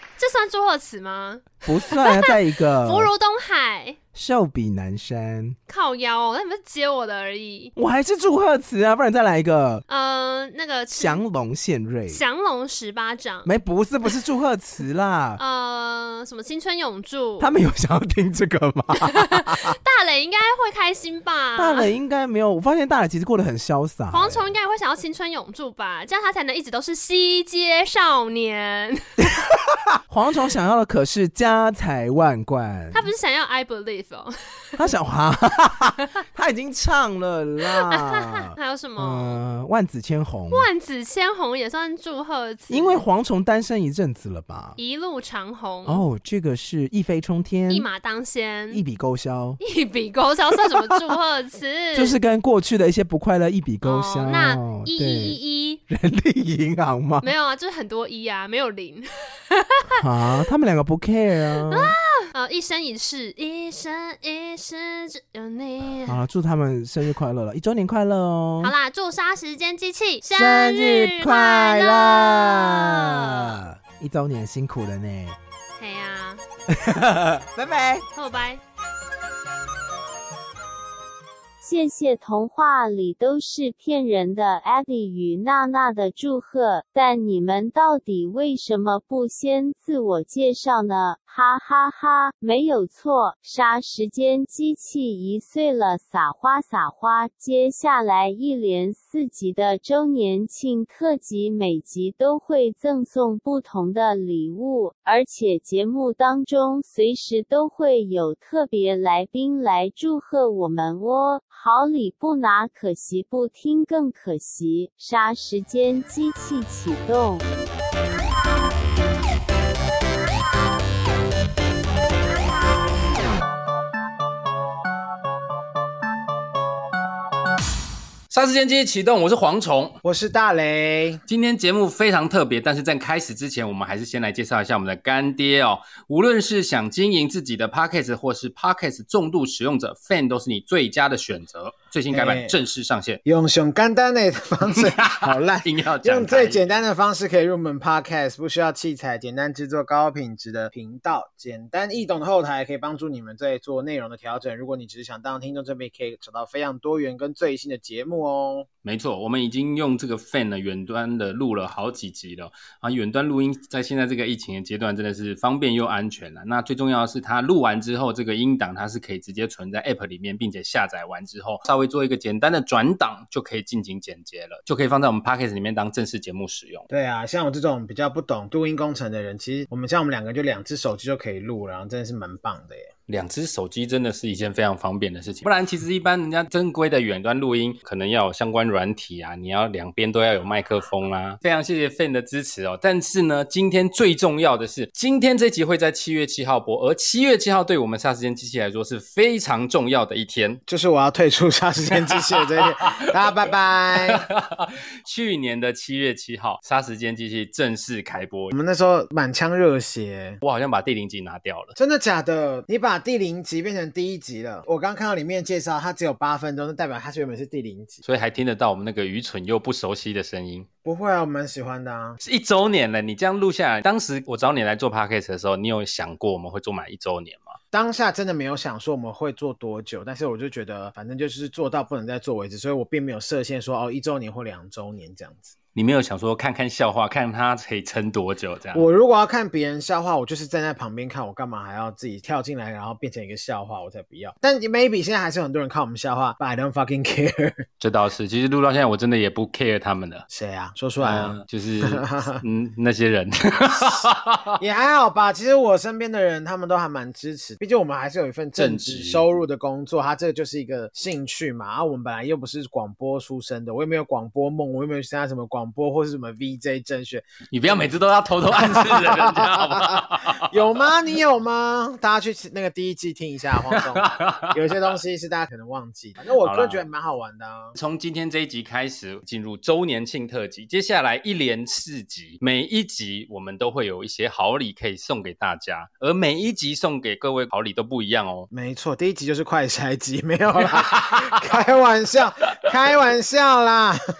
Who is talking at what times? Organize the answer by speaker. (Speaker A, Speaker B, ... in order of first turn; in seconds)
Speaker A: 0.2-4.0, 5.7-7.7, 9.9-11.2, 12.1-13.5, 15.4-17.5, 19.0-21.9, 24.1-29.0, 32.9-34.9, 37.6-39.4, 40.5-43.0, 44.8-46.0, 47.7-48.8, 49.6-52.2, 53.8-55.8, 57.2-60.0, 61.5-66.2, 68.6-73.6, 75.8-76.4, 78.2-78.6
Speaker B: 1.6-3.1, 4.1-5.6, 7.8-9.8, 11.0-12.2, 13.4-15.4, 17.4-19.7, 21.6-24.6, 29.2-33.1, 34.8-40.7, 42.7-44.8, 45.9-47.9, 48.7-49.6, 50.6-51.2, 51.9-57.3, 60.0-61.9, 66.1-68.7, 70.3-75.4, 76.7-78.0
Speaker C: 81.6-117.5
Speaker D: 128.3-130.0, 131.3-143.2, 144.8-146.8, 158.8-176.9, 183.1-200.6, 202.0-203.1, 204.0-208.5, 210.4-211.8, 218.1-220.7, 222.2-227.6, 235.8-238.8, 247.8-250.3, 251.0-254.6, 258.6-259.2, 267.5-270.6, 273.7-274.8, 276.4-276.8, 277.8-288.5, 290.6-291.4
Speaker E: 130.0-131.2, 142.1-142.6, 143.2-158.7, 176.9-182.9, 200.7-204.3, 208.5-210.4, 211.8-218.0, 220.8-222.2, 227.7-235.6, 238.7-247.7, 250.3-252.4, 254.6-277.8, 288.5-294.0